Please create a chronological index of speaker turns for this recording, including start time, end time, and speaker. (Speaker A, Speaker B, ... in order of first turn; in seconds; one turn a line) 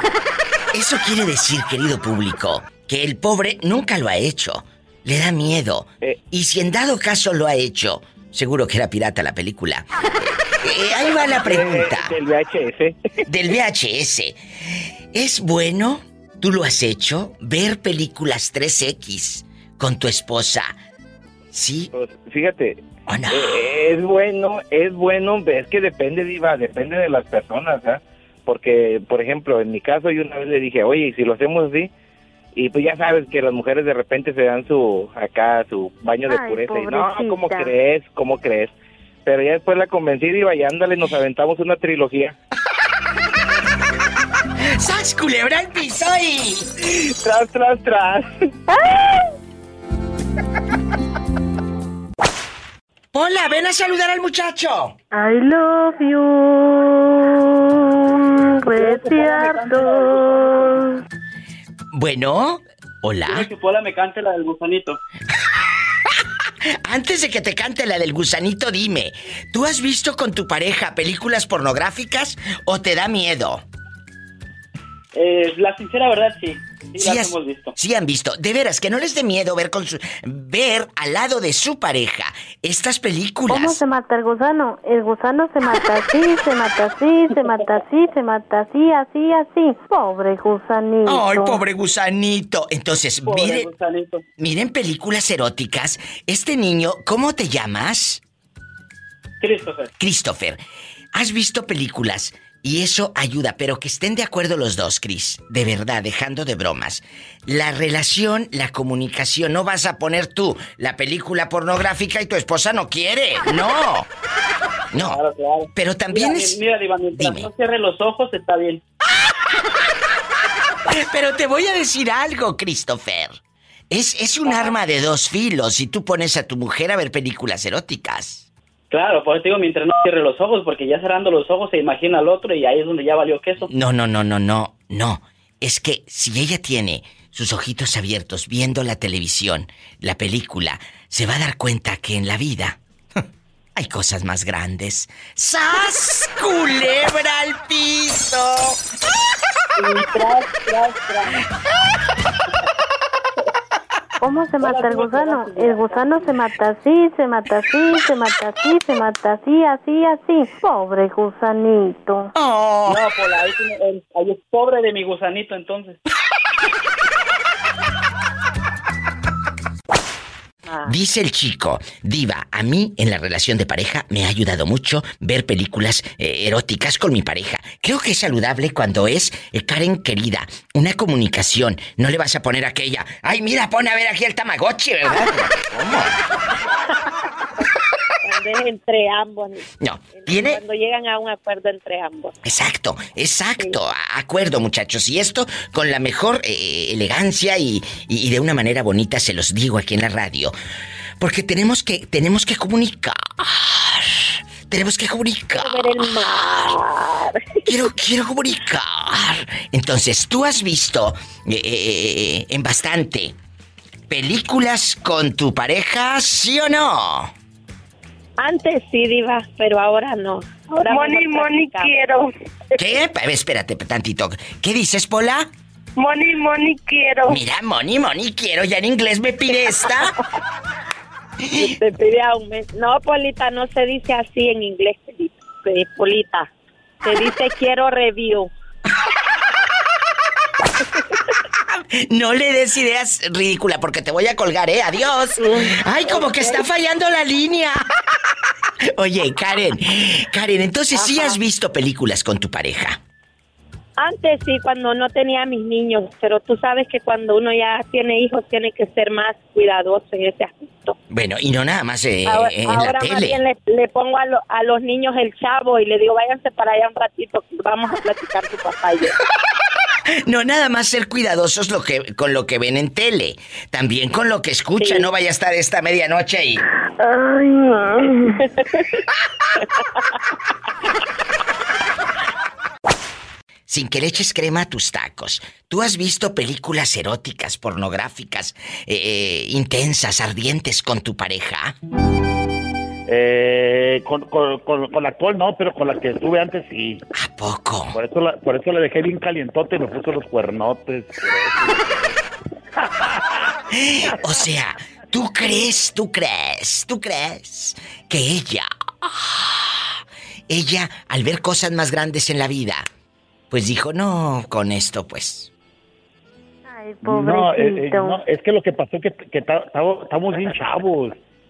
Speaker A: 0.7-12.1
Speaker B: 11.2-13.2
Speaker A: 13.2-14.4
Speaker A: 15.1-20.8
Speaker A: 21.5-21.9
Speaker B: 21.9-31.9
Speaker A: 23.1-23.6
Speaker B: 32.5-38.7
Speaker C: 36.3-37.7
Speaker B: 39.2-42.4
Speaker A: 44.7-46.7
Speaker B: 46.9-48.4
Speaker C: 48.7-49.2
Speaker A: 53.1-55.0
Speaker C: 55.1-61.0
Speaker D: 58.7-60.8
Speaker A: 61.9-63.5
Speaker D: 63.2-65.0
Speaker A: 66.8-73.6
Speaker D: 75.1-77.7
Speaker A: 77.0-83.8
Speaker C: 83.5-91.6
Speaker A: 91.0-93.7
Speaker D: 93.2-94.2
Speaker A: 94.4-98.2
Speaker D: 99.4-99.9
Speaker A: 100.0-100.6
Speaker A: 101.1-114.1
Speaker A: 114.9-115.2
Speaker D: 115.0-118.8
Speaker A: 115.7-116.6
Speaker A: 117.1-117.5
Speaker A: 120.9-123.4
Speaker A: 123.9-128.5
Speaker D: 128.9-133.7
Speaker A: 133.7-142.8
Speaker A: 143.8-148.8
Speaker D: 149.9-150.5
Speaker C: 154.2-162.3
Speaker D: 154.6-155.8
Speaker A: 162.3-163.0
Speaker D: 162.8-166.0
Speaker A: 170.8-186.2
Speaker E: 188.2-192.3
Speaker A: 189.8-190.6
Speaker A: 192.4-200.5
Speaker A: 201.2-206.6
Speaker E: 205.5-207.6
Speaker A: 207.7-213.3
Speaker A: 214.1-217.3
Speaker E: 218.4-221.9
Speaker F: 220.7-222.3
Speaker A: 222.8-225.5
Speaker F: 226.0-227.4
Speaker A: 227.3-230.1
Speaker E: 231.6-236.5
Speaker E: 237.0-238.5
Speaker A: 242.0-247.8
Speaker E: 246.1-246.6
Speaker A: 248.9-253.0
Speaker E: 251.0-251.4
Speaker E: 254.0-260.9
Speaker A: 261.1-263.4
Speaker E: 262.2-269.1
Speaker A: 270.2-276.6
Speaker E: 274.8-275.1
Speaker A: 283.7-291.7
Speaker G: 293.1-297.0
Speaker A: 297.1-298.0
Speaker G: 297.9-302.2
Speaker G: 302.8-304.4
Speaker A: 303.7-312.9
Speaker A: 313.5-315.5
Speaker C: 316.6-318.2
Speaker G: 317.0-321.2